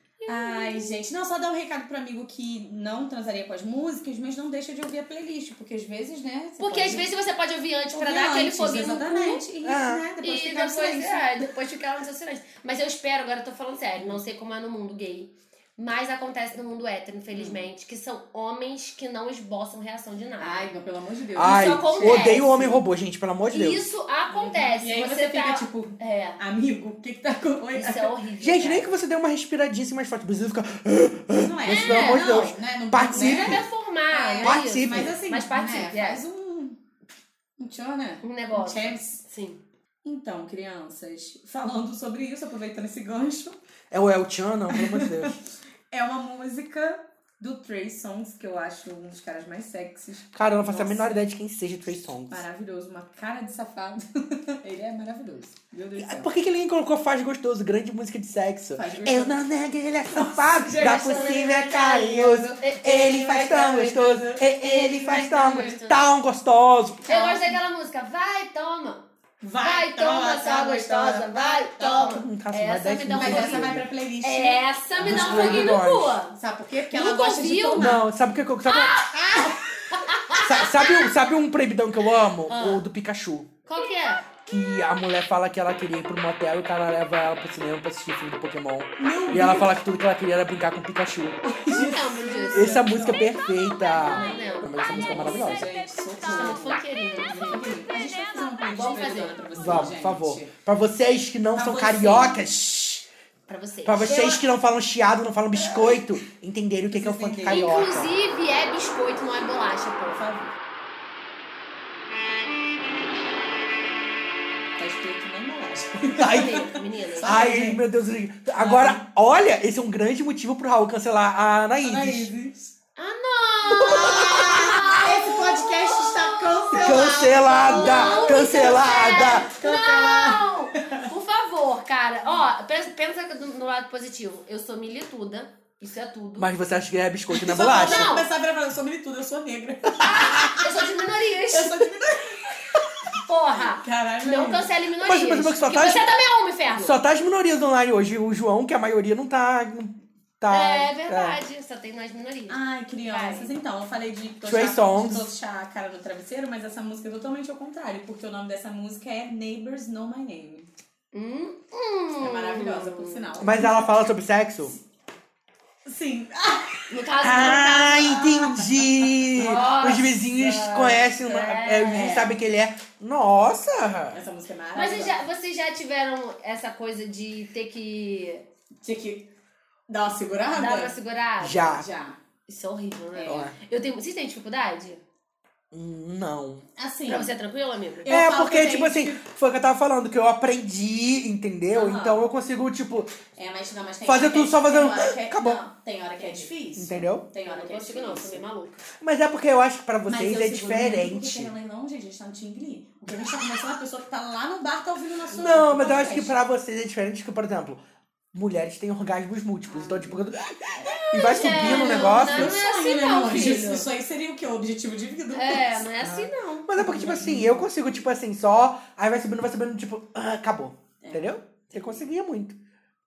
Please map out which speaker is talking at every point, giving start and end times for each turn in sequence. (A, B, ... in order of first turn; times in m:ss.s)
0:00.2-0:01.0 A
0:00.3-0:07.1 B
0:06.6-0:09.5 A
0:07.9-0:11.3 B
0:09.6-0:10.0 C
0:10.2-0:20.7 A
0:17.3-0:17.7 B
0:20.4-0:22.8 B
0:21.4-0:23.8 C
0:21.4-0:22.8 A
0:23.5-0:26.4 A
0:24.3-0:28.2 B
0:27.8-0:28.9 A
0:28.4-0:33.6 C
0:31.3-0:36.8 B
0:31.7-0:32.4 A
0:33.1-0:36.2 A
0:34.4-0:35.2 C
0:37.6-0:39.2 B
0:38.2-0:39.6 A
0:40.0-0:43.6 B
0:43.9-0:45.4 C
0:44.7-0:45.3 B
0:45.9-0:51.2 B
0:50.3-0:52.4 C
0:52.3-0:56.3 B
0:56.0-1:07.1 C
0:58.8-0:59.5 B
1:00.1-1:05.8 B
1:00.8-1:02.0 A
1:02.6-1:04.1 A
1:04.6-1:06.0 A
1:07.1-1:07.6 B
1:07.1-1:09.0 A
1:09.4-1:12.2 B
1:09.6-1:16.4 A
1:11.9-1:13.9 C
1:13.1-1:15.8 B
1:15.0-1:16.2 C
1:16.4-1:18.0 B
1:16.9-1:18.0 A
1:17.8-1:18.9 C
1:18.7-1:21.1 A
1:20.4-1:23.5 C
1:22.5-1:22.8 A
1:23.7-1:24.2 A
1:24.4-1:31.4 C
1:29.0-1:29.8 B
1:31.4-1:33.3 B
1:31.7-1:33.3 A
1:32.5-1:35.7 C
1:33.9-1:35.0 A
1:33.9-1:40.5 B
1:36.2-1:37.7 A
1:38.6-1:39.9 A
1:39.5-1:43.1 C
1:41.5-1:42.4 B
1:43.5-1:44.4 A
1:43.8-1:48.1 C
1:45.6-1:46.1 B
1:46.9-1:47.9 B
1:47.5-1:50.3 A
1:50.1-1:50.5 B
1:54.8-1:57.8 B
1:56.2-1:56.6 C
1:56.2-1:57.5 A
1:57.2-2:02.3 C
1:58.6-1:59.0 B
2:01.8-2:02.7 B
2:03.0-2:16.5 A
2:03.7-2:05.0 C
2:03.9-2:11.0 B
2:06.7-2:09.6 C
2:16.4-2:18.1 C
2:17.3-2:20.9 B
2:17.5-2:18.3 A
2:20.0-2:21.9 A
2:21.5-2:22.4 B
2:23.2-2:27.0 A
2:23.6-2:24.7 B
2:25.0-2:26.1 C
2:26.8-2:31.4 C
2:30.5-2:33.5 A
2:32.5-2:40.7 B
2:34.4-2:35.3 C
2:41.1-2:43.5 A
2:42.2-2:43.9 B
2:43.4-2:44.8 C
2:45.8-2:46.9 B
2:46.9-2:48.2 A
2:47.2-2:54.2 C
2:47.4-2:49.6 B
2:49.4-2:52.2 A
2:51.9-2:52.4 B
2:54.1-2:55.2 B
2:54.8-2:58.4 A
2:58.8-2:59.3 B
2:59.9-3:01.0 B
3:00.5-3:01.7 A
3:01.4-3:01.9 C
3:01.6-3:02.2 B
3:02.5-3:05.0 A
3:03.1-3:03.5 B
3:03.3-3:03.5 C
3:05.7-3:06.6 C
3:06.8-3:07.3 B
3:07.1-3:08.1 A
3:08.0-3:09.2 B
3:08.1-3:13.2 C
3:11.7-3:12.3 B
3:13.4-3:18.5 B
3:14.1-3:15.6 C
3:16.2-3:16.5 A
3:16.8-3:17.2 C
3:17.4-3:18.8 A
3:19.0-3:21.5 C
3:20.1-3:26.3 B
3:25.3-3:26.2 A
3:25.4-3:27.8 C
3:28.3-3:32.6 C
3:29.7-3:35.9 B
3:30.9-3:33.9 A
3:35.3-3:36.7 A
3:36.0-3:42.6 C
3:36.8-3:37.7 B
3:41.0-3:42.0 B